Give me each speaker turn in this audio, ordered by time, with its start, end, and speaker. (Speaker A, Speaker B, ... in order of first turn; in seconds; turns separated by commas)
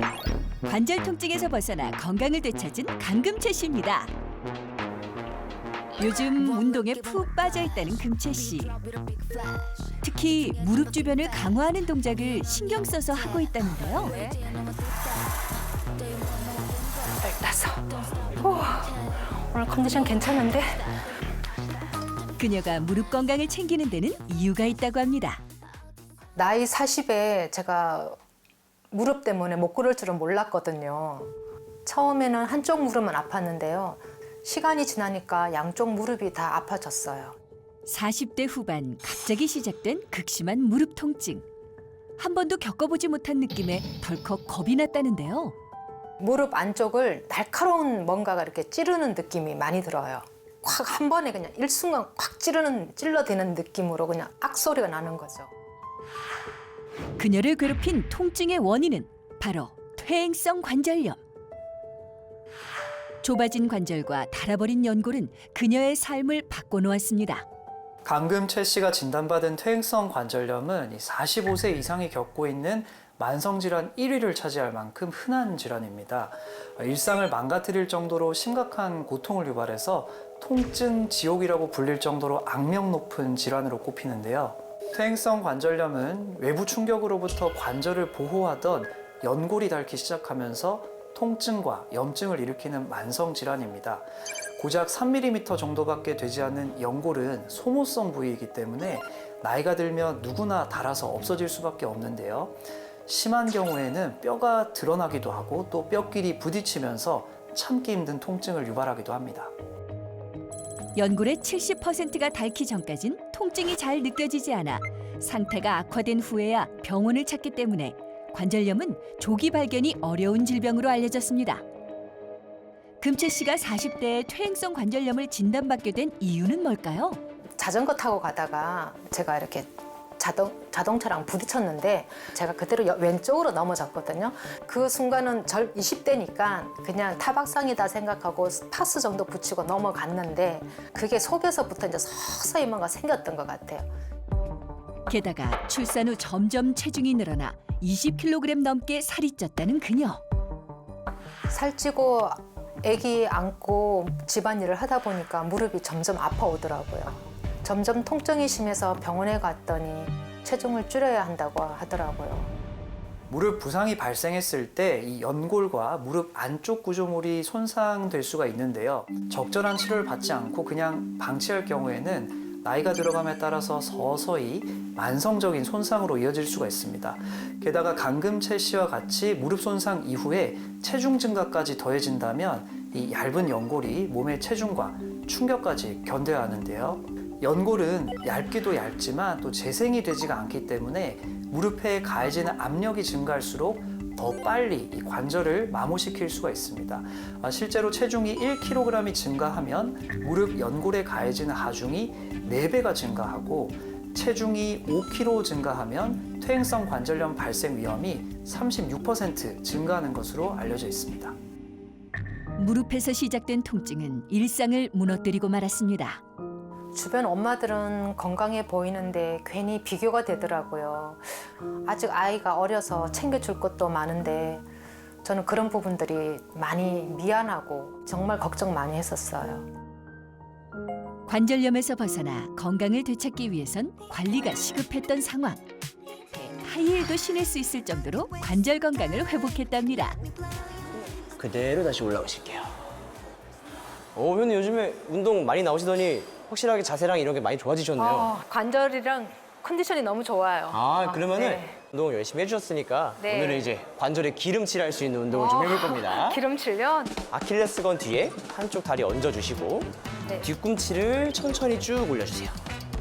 Speaker A: 0.7-4.1, Speaker A: 6.0-8.8, Speaker A: 10.0-14.1, Speaker B: 14.0-14.3, Speaker B: 17.2-20.8, Speaker A: 22.4-25.4, Speaker B: 26.4-28.2, Speaker B: 28.9-31.3, Speaker B: 31.9-37.3, Speaker A: 37.9-41.4, Speaker A: 42.2-45.5, Speaker B: 46.2-55.5, Speaker A: 57.2-61.2, Speaker A: 63.2-67.4, Speaker C: 68.0-109.5, Speaker A: 111.0-121.6, Speaker A: 123.0-127.2, Speaker B: 127.6-143.9, Speaker A: 145.1-150.2, Speaker B: 151.5-162.5, Speaker C: 163.3-211.3, Speaker A: 212.6-216.2, Speaker B: 216.9-224.6, Speaker B: 225.2-229.7, Speaker A: 231.3-235.6, Speaker A: 236.3-240.2, Speaker D: 241.4-242.7, Speaker D: 244.1-248.3, Speaker B: 248.0-251.7, Speaker D: 250.7-256.4, Speaker B: 253.2-253.7, Speaker B: 255.3-257.2, Speaker D: 257.3-262.6